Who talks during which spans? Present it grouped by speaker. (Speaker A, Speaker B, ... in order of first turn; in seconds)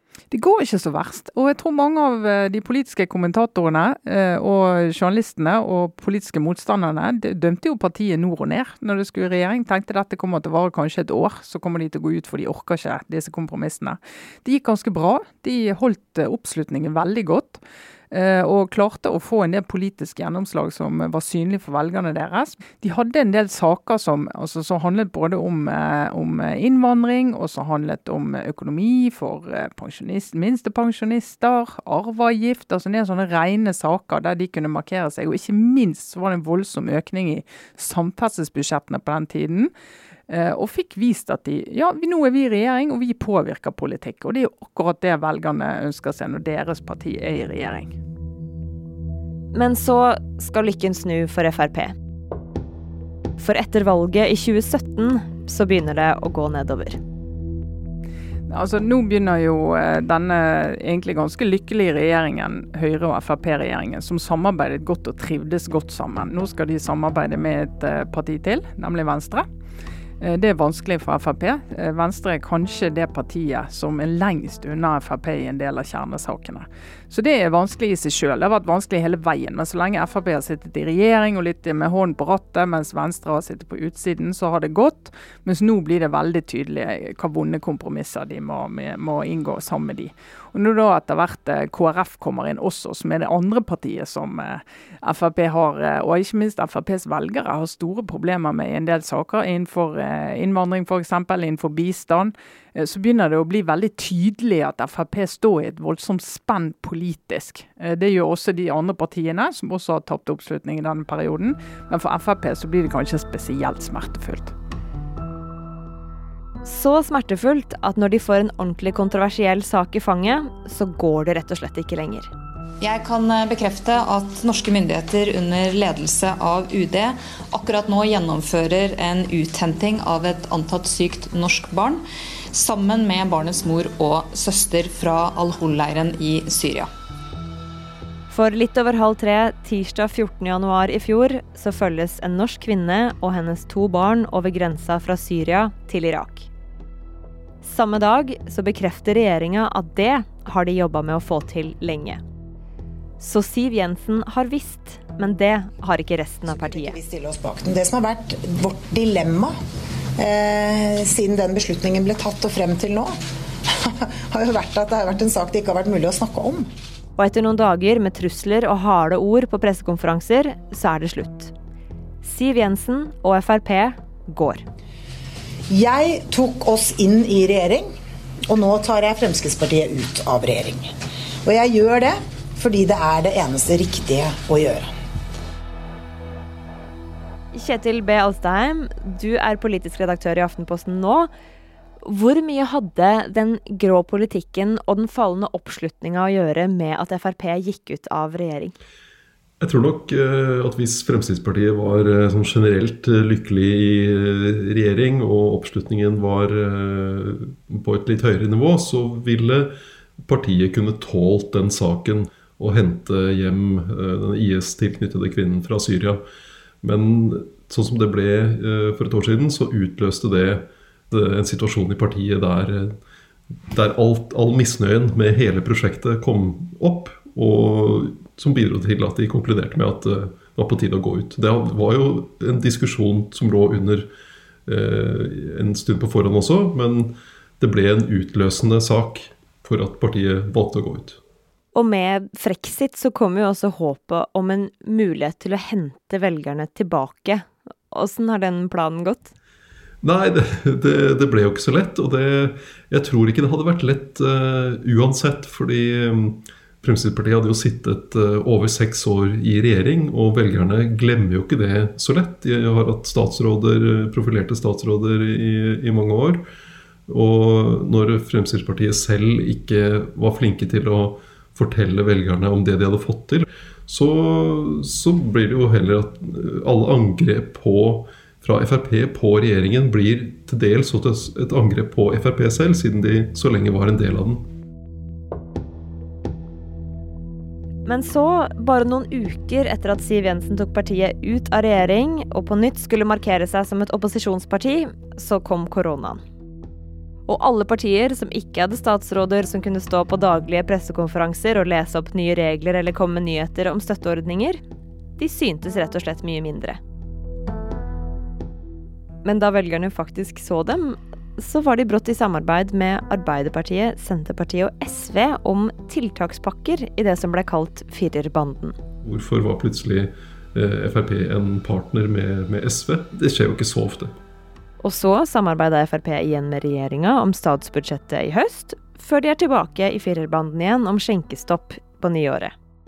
Speaker A: 0.3-39.7, 40.3-48.0, 58.5-69.5, 70.2-114.5
Speaker B: 49.5-51.9, 53.4-57.0, 116.6-122.3, 138.3-146.5, 147.6-152.2, 153.2-157.0, 167.2-171.5, 172.2-174.6, 187.5-191.3, 192.0-198.7, 241.7-249.3, 287.9-296.2, 297.3-304.6, 305.2-306.8, 309.2-318.8, 324.8-332.5
Speaker C: 122.8-132.0, 132.5-136.9
Speaker D: 156.6-159.5, 160.2-163.1, 163.7-166.7, 175.7-177.9, 178.5-180.9, 181.4-184.9
Speaker E: 199.6-209.7, 210.3-216.2, 216.8-223.0, 223.7-234.1, 234.7-241.2, 250.0-266.4, 267.1-284.4, 319.0-324.1